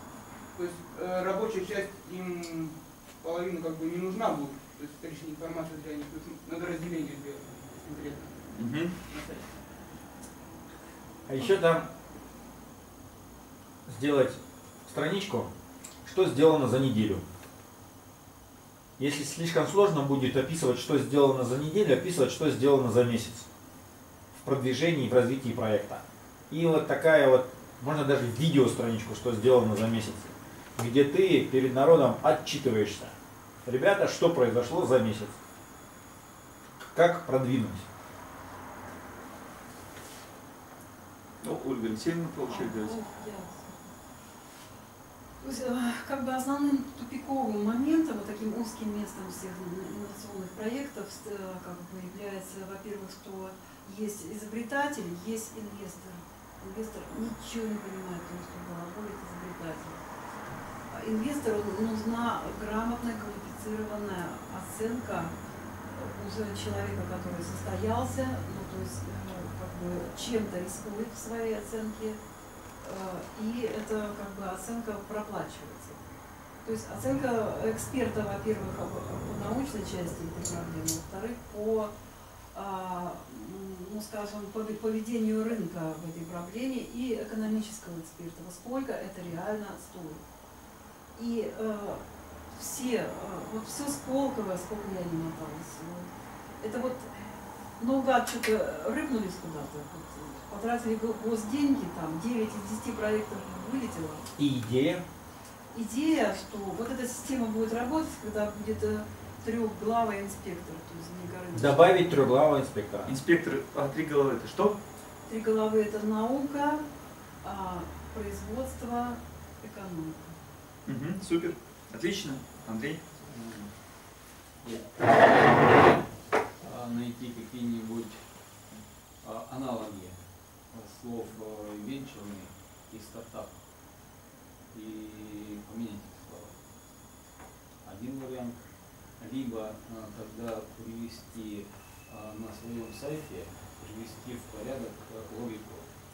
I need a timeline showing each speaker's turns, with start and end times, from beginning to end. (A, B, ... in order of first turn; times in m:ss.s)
0:00.5-0:08.4 A
0:08.5-0:08.9 B
0:09.1-0:09.5 A
0:11.3-0:11.9 C
0:13.9-0:15.5 C
0:16.0-0:17.2 C
0:19.0-0:23.5 C
0:24.4-0:35.4 C
0:36.9-0:37.8 C
0:41.4-0:43.0 B
0:42.4-0:43.9 D
0:45.4-1:00.0 D
1:00.9-1:05.3 D
1:05.9-1:12.2 D
1:12.8-1:16.0 D
1:16.6-1:21.9 D
1:22.5-1:30.2 D
1:31.2-1:32.0 D
1:32.5-1:37.1 D
1:37.8-1:44.2 D
1:44.4-1:45.0 C
1:45.7-1:52.2 D
1:51.5-1:53.2 C
1:53.0-1:54.8 B
1:55.2-1:56.8 D
1:57.4-2:00.4 D
2:00.8-2:03.0 B
2:03.3-2:03.7 E
2:04.6-2:06.0 E
2:06.6-2:08.2 E
2:09.2-2:13.5 E
2:14.7-2:16.6 E
2:17.8-2:18.6 E
2:19.2-2:25.9 E